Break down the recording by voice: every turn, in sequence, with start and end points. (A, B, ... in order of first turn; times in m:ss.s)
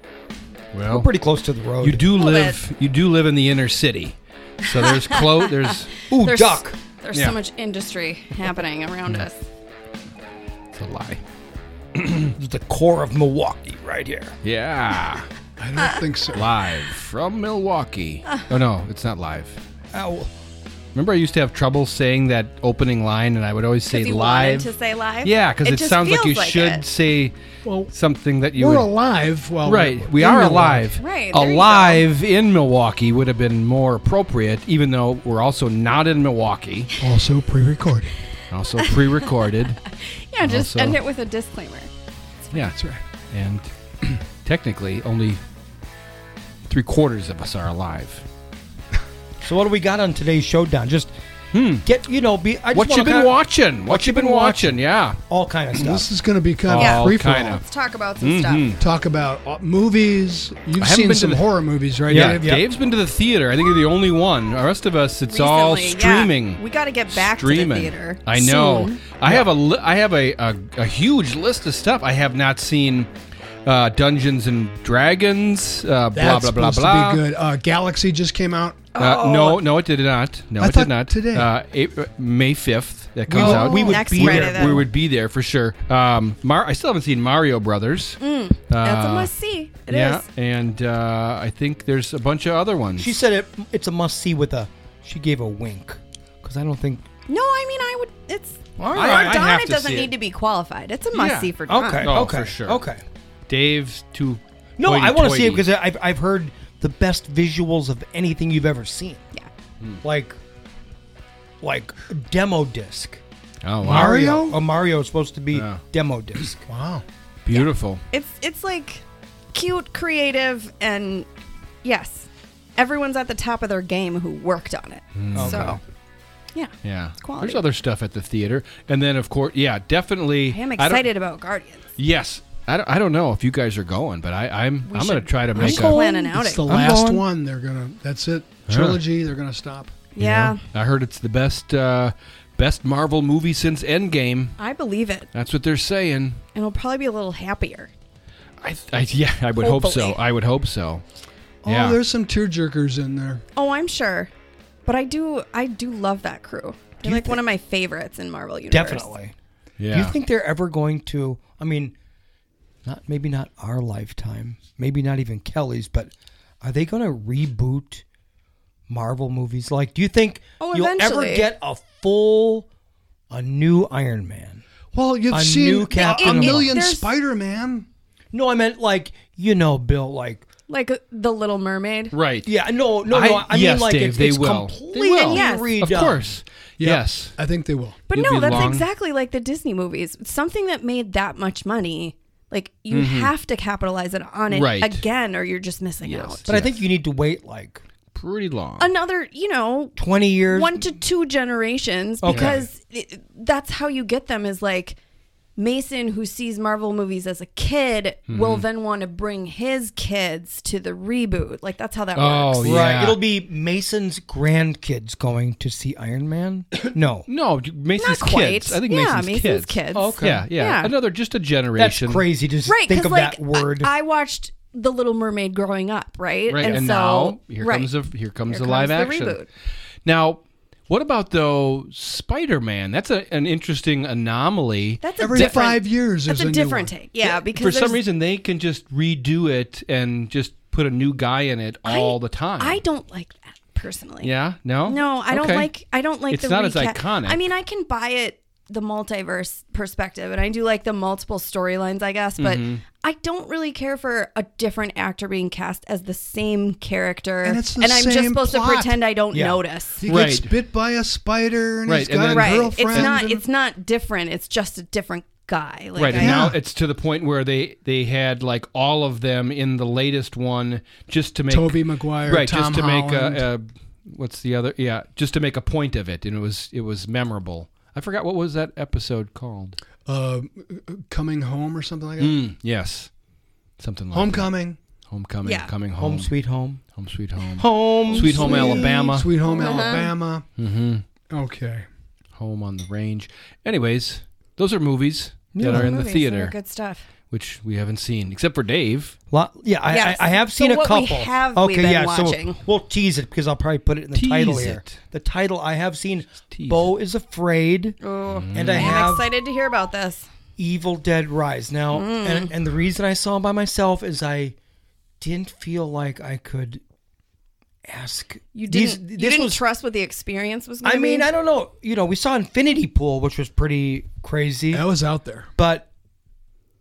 0:00.7-0:01.1 A
0:00.9-0:02.1 B
0:01.8-0:06.0 A
0:02.2-0:02.6 C
0:04.6-0:09.4 C
0:06.1-0:06.8 B
0:10.7-0:11.2 A
0:12.0-0:12.3 A
0:12.3-0:14.4 B
0:14.4-0:15.3 A
0:15.6-0:16.5 D
0:16.3-0:19.6 A
0:19.9-0:20.3 B
0:20.9-0:24.7 A
0:23.9-0:26.8 C
0:25.2-0:27.4 A
0:27.6-0:27.9 D
0:27.9-0:28.9 A
0:28.6-0:30.9 D
0:29.6-0:36.9 A
0:31.0-0:32.0 C
0:37.0-0:38.2 D
0:38.5-0:39.8 A
0:39.9-0:41.9 C
0:40.4-0:41.0 A
0:42.5-0:43.0 D
0:43.3-0:45.4 A
0:46.7-0:48.2 A
0:49.4-0:51.1 B
0:51.5-0:51.9 A
0:51.8-0:53.4 B
0:52.7-0:55.2 A
0:53.9-0:54.8 B
0:55.3-0:56.1 B
0:55.7-0:57.6 D
0:56.7-0:57.6 A
0:56.8-0:58.7 C
0:58.2-0:58.8 A
0:58.8-1:02.6 D
1:00.8-1:01.5 A
1:02.1-1:02.6 B
1:02.1-1:13.1 A
1:05.3-1:09.0 C
1:13.6-1:17.2 A
1:16.1-1:18.8 D
1:18.9-1:19.6 C
1:19.0-1:29.3 A
1:20.6-1:21.5 D
1:23.3-1:24.9 B
1:23.4-1:24.8 C
1:28.2-1:30.2 C
1:29.9-1:33.2 A
1:33.0-1:37.1 B
1:37.3-1:42.1 C
1:38.8-1:39.4 B
1:38.9-1:40.1 A
1:41.1-1:42.8 A
1:41.7-1:43.0 B
1:43.5-1:45.7 A
1:44.8-1:49.2 B
1:50.0-1:50.4 B
1:51.6-1:53.2 B
1:53.6-1:54.2 A
1:53.8-1:54.6 D
1:53.8-1:56.6 B
1:55.5-1:55.8 A
1:56.7-1:57.0 D
1:57.4-1:58.0 A
1:57.5-1:59.0 C
1:59.5-2:01.3 C
2:01.8-2:05.8 C
2:05.2-2:05.8 A
2:05.3-2:05.8 B
2:06.6-2:07.6 C
2:06.8-2:11.1 A
2:10.5-2:11.8 C
2:12.0-2:16.0 A
2:14.9-2:16.6 C
2:15.6-2:17.2 B
2:15.6-2:20.0 D
2:18.7-2:19.0 A
2:20.2-2:20.6 C
2:20.2-2:24.6 A
2:24.6-2:25.3 C
2:25.3-2:26.4 A
2:26.6-2:27.9 C
2:28.6-2:31.0 A
2:29.6-2:30.2 C
2:31.6-2:33.4 D
2:31.6-2:32.0 A
2:33.6-2:34.3 C
2:34.9-2:39.1 C
2:37.0-2:37.4 B
2:38.7-2:39.3 B
2:39.8-2:40.2 A
2:39.9-2:42.0 B
2:42.8-2:48.0 B
2:48.9-2:52.7 B
2:50.6-2:51.5 C
2:53.3-2:54.6 B
2:54.9-2:57.9 D
2:55.3-2:56.7 B
2:56.0-2:57.1 C
2:58.3-3:00.5 B
3:00.7-3:02.2 C
3:02.1-3:02.5 A
3:02.5-3:06.2 B
3:03.1-3:07.4 A
3:05.3-3:05.7 C
3:06.8-3:08.0 D
3:08.1-3:16.4 C
3:08.1-3:08.9 A
3:12.9-3:13.3 A
3:14.5-3:15.0 A
3:16.0-3:16.8 A
3:16.5-3:17.8 B
3:18.1-3:18.9 A
3:18.8-3:20.0 C
3:20.0-3:20.9 B
3:20.5-3:25.0 C
3:22.2-3:22.7 B
3:22.3-3:22.6 A
3:25.6-3:32.8 C
3:28.3-3:28.6 A
3:32.2-3:33.2 A
3:32.6-3:37.3 B
3:37.3-3:42.3 A
3:38.0-3:40.9 C
3:39.9-3:40.5 B
3:41.8-3:43.9 B
3:42.7-3:47.9 C
3:46.5-3:49.4 A
3:48.5-3:49.5 C
3:50.0-3:55.6 A
3:55.0-3:58.0 C
3:55.2-3:56.9 D
3:57.2-4:02.8 A
4:01.8-4:04.3 C
4:04.2-4:05.7 A
4:04.9-4:20.0 C
4:06.3-4:07.4 A
4:12.4-4:12.8 A
4:17.4-4:19.0 D
4:19.3-4:19.6 B
4:20.0-4:23.4 D
4:20.1-4:20.5 A
4:21.9-4:23.2 A
4:22.3-4:26.4 C
4:26.0-4:39.8 A
4:26.1-4:26.6 D
4:31.5-4:33.5 D
4:40.0-4:42.4 D
4:42.2-4:43.1 A
4:43.8-4:44.5 A
4:44.1-4:44.8 D
4:45.1-4:46.3 A
4:45.4-4:45.7 C
4:46.0-4:46.8 B
4:46.9-4:49.3 A
4:47.6-4:49.1 B
4:48.1-4:50.4 D
4:49.4-4:50.1 C
4:50.6-4:51.0 A
4:51.3-4:51.9 D
4:52.4-4:56.6 A
4:55.5-4:55.9 B
4:55.7-4:57.0 C
4:57.3-4:59.2 A
4:59.3-5:08.0 B
4:59.9-5:02.6 C
5:04.1-5:05.0 A
5:06.5-5:06.9 A
5:08.0-5:10.3 C
5:08.3-5:09.0 A
5:08.5-5:09.3 B
5:10.6-5:14.6 B
5:11.9-5:12.5 C
5:15.2-5:16.8 B
5:17.9-5:19.6 B
5:18.5-5:21.3 C
5:20.8-5:24.8 B
5:24.7-5:25.5 D
5:25.6-5:25.9 B